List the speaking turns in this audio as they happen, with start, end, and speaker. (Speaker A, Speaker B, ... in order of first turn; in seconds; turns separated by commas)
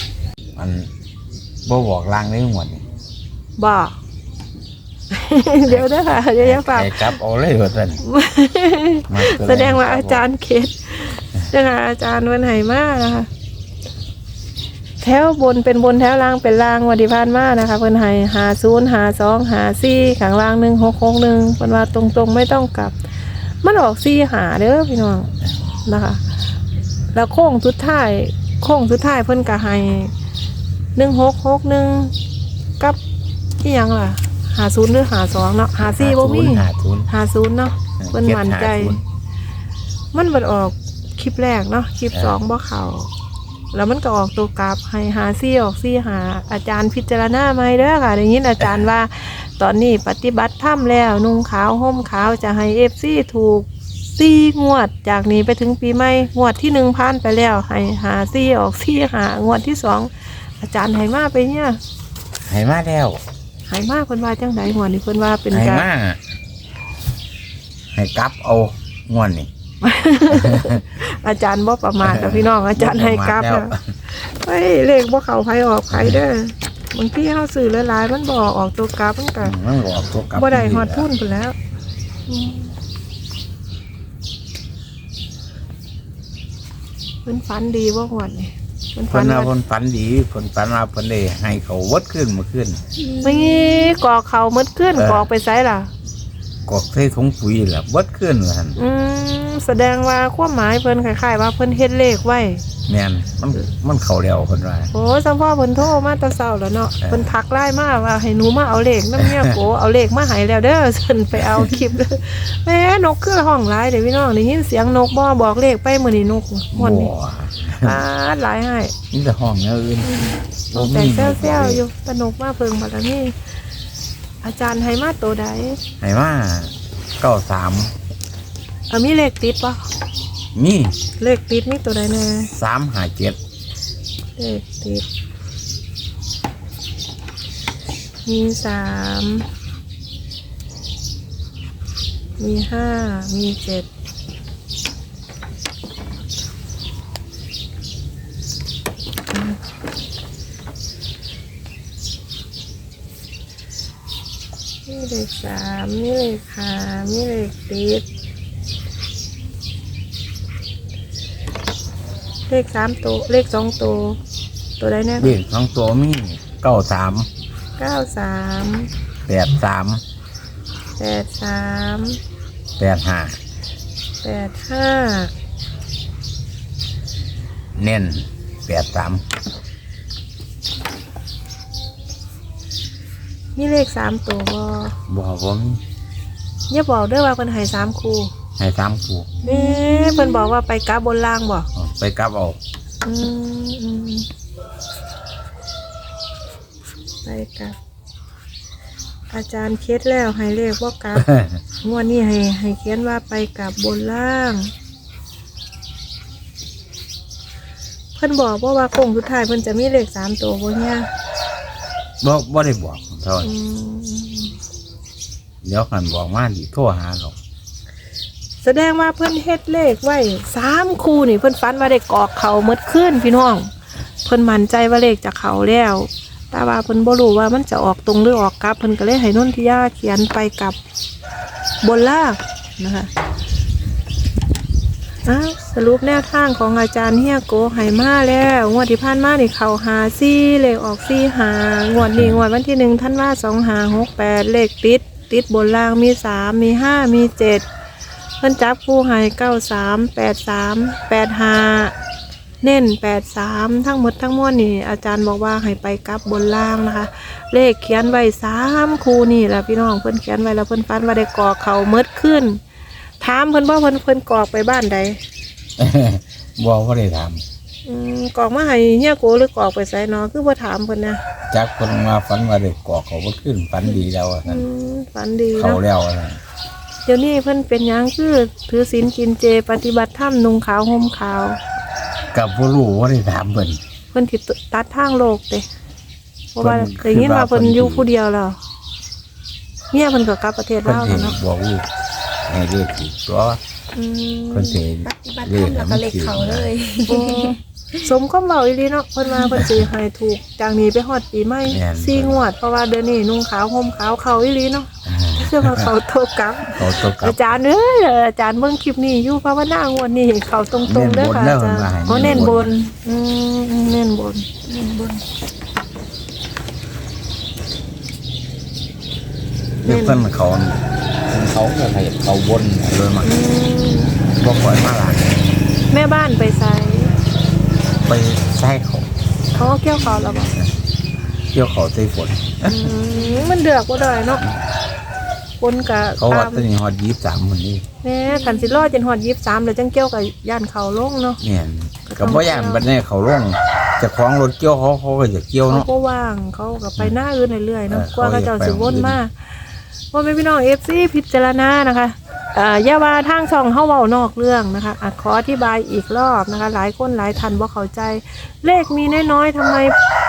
Speaker A: 0.6-0.9, Speaker A: 1.6-2.8, Speaker B: 3.6-4.0, Speaker B: 5.1-7.2, Speaker A: 5.7-8.0, Speaker B: 8.0-13.3, Speaker A: 9.1-10.2, Speaker B: 15.0-23.0, Speaker B: 23.6-25.3, Speaker B: 25.8-26.2, Speaker B: 27.1-30.1, Speaker B: 31.0-32.1, Speaker B: 33.6-39.0, Speaker A: 35.9-37.1, Speaker A: 38.0-39.0, Speaker B: 40.1-43.1, Speaker A: 42.1-42.4, Speaker B: 43.7-61.8, Speaker A: 62.5-63.2, Speaker B: 63.7-65.9, Speaker A: 65.5-66.2, Speaker A: 67.9-69.5, Speaker B: 69.8-79.5, Speaker A: 70.3-70.8, Speaker A: 72.0-73.8, Speaker A: 75.9-76.2, Speaker A: 79.4-81.1, Speaker B: 80.3-81.6, Speaker B: 82.3-82.7, Speaker B: 87.2-89.5, Speaker A: 89.1-92.8, Speaker C: 93.1-93.9, Speaker B: 93.2-95.9, Speaker A: 95.0-95.3, Speaker A: 96.7-98.8, Speaker B: 98.8-102.6, Speaker A: 102.9-104.9, Speaker B: 104.9-117.1, Speaker A: 107.0-107.3, Speaker A: 109.2-109.5, Speaker A: 116.7-118.0, Speaker B: 117.8-118.9, Speaker A: 119.1-121.8, Speaker B: 120.2-123.3, Speaker B: 124.4-125.8, Speaker A: 126.0-127.9, Speaker B: 128.9-129.8, Speaker A: 130.6-130.9, Speaker B: 131.2-132.5, Speaker A: 132.5-133.4, Speaker B: 134.4-135.1, Speaker B: 138.2-139.5, Speaker B: 142.4-143.9, Speaker B: 154.8-158.1, Speaker B: 162.5-164.2, Speaker B: 164.8-165.4, Speaker A: 165.2-167.3, Speaker B: 167.8-168.9, Speaker A: 169.2-170.0, Speaker B: 171.0-172.2, Speaker A: 172.8-173.4, Speaker B: 174.2-175.3, Speaker A: 177.8-179.2, Speaker B: 183.6-184.9, Speaker A: 185.1-185.8, Speaker B: 186.7-188.3, Speaker A: 188.6-189.3, Speaker C: 189.4-190.5, Speaker B: 189.4-191.7, Speaker A: 191.8-192.6, Speaker B: 193.1-194.3, Speaker B: 197.2-197.8, Speaker B: 199.3-201.3, Speaker A: 201.2-201.6, Speaker B: 201.8-204.7, Speaker B: 208.2-211.1, Speaker A: 212.2-213.5, Speaker B: 213.4-214.6, Speaker A: 215.6-217.4, Speaker B: 218.6-223.7, Speaker B: 224.2-230.8, Speaker B: 231.8-233.1, Speaker B: 235.2-247.6, Speaker A: 242.1-242.4, Speaker B: 248.4-251.9, Speaker B: 252.6-262.6, Speaker B: 263.2-265.2, Speaker A: 265.8-267.4, Speaker B: 267.9-271.2, Speaker A: 271.5-274.7, Speaker B: 274.5-275.8, Speaker A: 275.6-276.4, Speaker B: 277.1-281.6, Speaker A: 282.3-283.8, Speaker B: 284.1-285.7, Speaker B: 286.5-288.6, Speaker A: 286.6-288.1, Speaker B: 289.9-291.4, Speaker A: 290.8-291.9, Speaker A: 292.4-293.6, Speaker B: 293.9-294.8, Speaker A: 294.5-296.7, Speaker C: 295.0-297.6, Speaker B: 297.1-314.5, Speaker A: 301.7-302.4, Speaker A: 305.1-305.9, Speaker A: 306.7-307.6, Speaker A: 310.8-312.7, Speaker C: 314.7-315.2, Speaker B: 319.8-320.2, Speaker A: 319.8-323.4, Speaker B: 323.2-324.2, Speaker A: 324.3-325.4, Speaker B: 325.9-327.1, Speaker A: 328.1-329.1, Speaker B: 329.6-330.6, Speaker A: 331.5-332.9, Speaker B: 332.6-334.4, Speaker C: 333.1-333.5, Speaker B: 335.6-336.7, Speaker A: 336.2-337.8, Speaker B: 338.0-341.4, Speaker A: 341.4-345.9, Speaker B: 342.1-342.9, Speaker B: 345.7-349.5, Speaker A: 347.9-349.2, Speaker B: 350.1-359.9